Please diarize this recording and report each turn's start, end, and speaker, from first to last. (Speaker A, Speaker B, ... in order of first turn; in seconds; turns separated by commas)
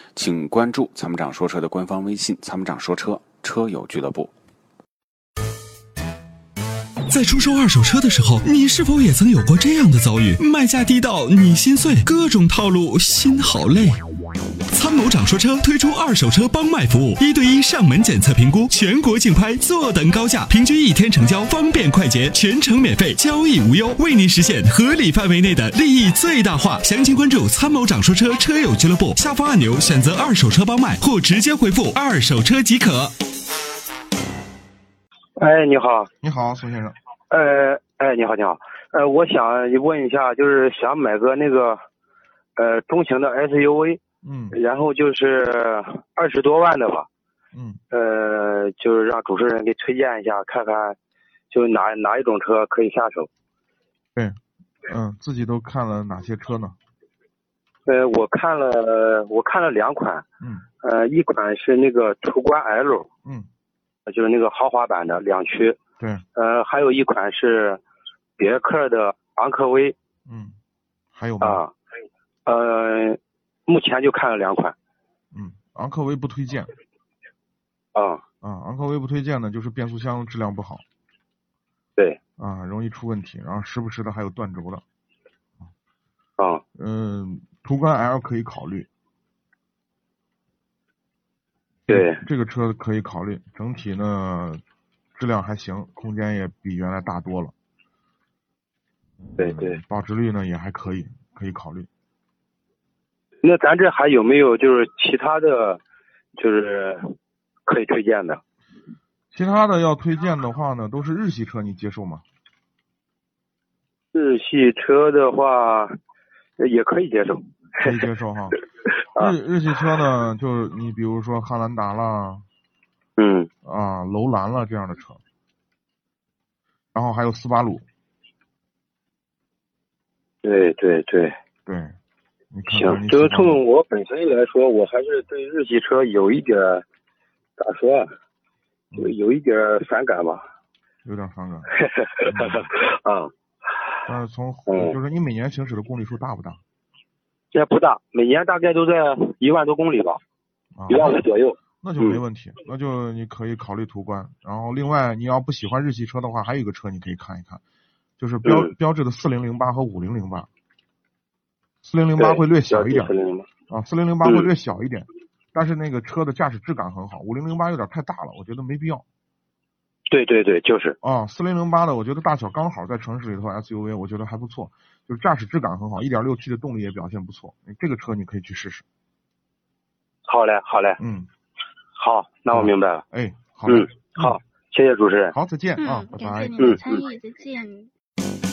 Speaker A: 0.1-4.3, Speaker B: 0.5-2.1, Speaker B: 3.0-4.2, Speaker C: 7.1-14.0, Speaker C: 14.7-33.1, Speaker B: 35.4-36.1, Speaker D: 36.2-37.0, Speaker B: 37.3-41.8, Speaker B: 42.5-44.0, Speaker D: 44.2-44.6, Speaker B: 44.5-47.1, Speaker D: 47.5-47.8, Speaker B: 47.9-51.0, Speaker B: 51.5-53.3, Speaker D: 54.9-56.7, Speaker B: 57.9-60.2, Speaker B: 60.8-63.1, Speaker B: 64.0-65.8, Speaker B: 66.3-67.8, Speaker B: 68.4-69.9, Speaker D: 70.2-70.5, Speaker D: 71.1-71.6, Speaker B: 71.4-71.7, Speaker B: 72.5-74.7, Speaker D: 75.3-76.7, Speaker B: 77.9-78.2, Speaker D: 78.4-80.8, Speaker D: 82.4-84.8, Speaker B: 86.4-86.6, Speaker D: 86.7-88.9, Speaker D: 91.9-94.6, Speaker B: 91.9-92.2, Speaker D: 95.2-97.5, Speaker B: 99.4-99.8, Speaker D: 99.4-101.9, Speaker B: 103.4-105.8, Speaker B: 106.3-107.1, Speaker B: 107.7-108.4, Speaker D: 109.3-112.2, Speaker B: 114.1-116.0, Speaker B: 116.6-118.0, Speaker D: 117.8-118.6, Speaker D: 119.2-122.4, Speaker B: 123.2-123.5, Speaker D: 123.6-125.2, Speaker D: 126.9-127.8, Speaker B: 130.4-131.3, Speaker D: 131.7-131.9, Speaker D: 132.5-133.6, Speaker B: 132.7-136.8, Speaker B: 137.6-138.1, Speaker B: 139.0-140.4, Speaker D: 141.0-141.7, Speaker B: 141.7-143.3, Speaker D: 142.2-142.7, Speaker D: 144.1-146.6, Speaker B: 144.7-145.0, Speaker B: 147.5-150.2, Speaker D: 150.7-151.2, Speaker B: 150.9-152.2, Speaker D: 151.8-157.6, Speaker D: 158.2-160.5, Speaker B: 158.4-158.7, Speaker D: 161.8-163.1, Speaker B: 162.2-163.5, Speaker D: 163.7-169.0, Speaker B: 170.1-171.0, Speaker D: 171.0-178.8, Speaker B: 180.2-181.0, Speaker D: 181.0-181.3, Speaker B: 181.9-183.0, Speaker D: 182.5-184.4, Speaker B: 183.7-185.3, Speaker D: 185.3-186.8, Speaker E: 185.8-187.9